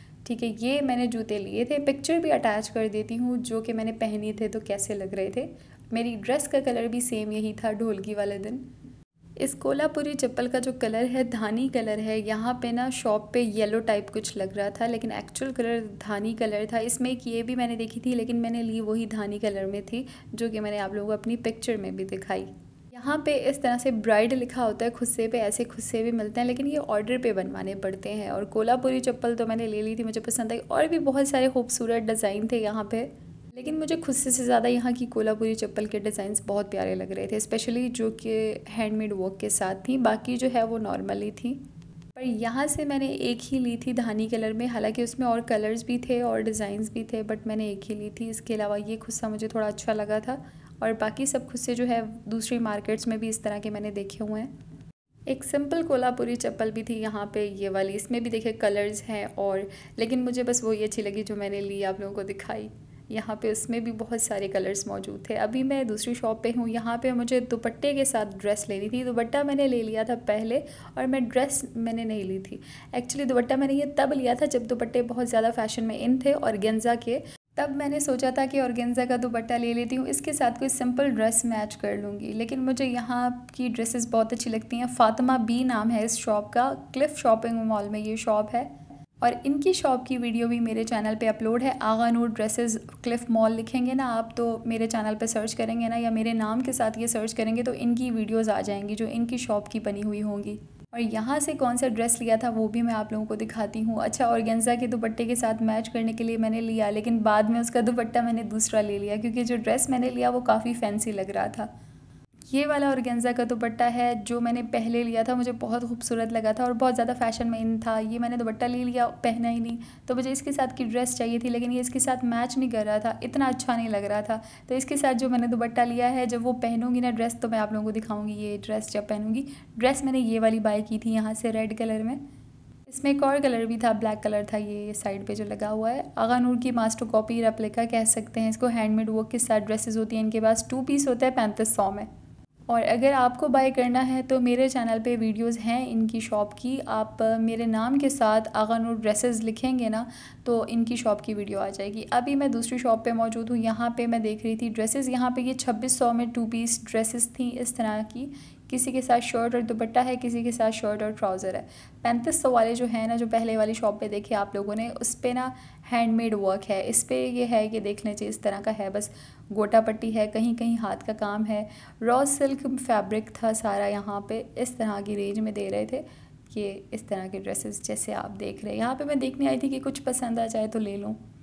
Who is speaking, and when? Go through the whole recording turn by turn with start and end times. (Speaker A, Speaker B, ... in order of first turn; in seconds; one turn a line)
Speaker A: 0.2-8.6
Speaker A: 9.4-41.6
Speaker A: 42.2-54.5
Speaker A: 55.3-88.7
Speaker A: 89.2-111.7
Speaker A: 112.5-132.2
Speaker A: 132.9-142.1
Speaker A: 142.7-181.2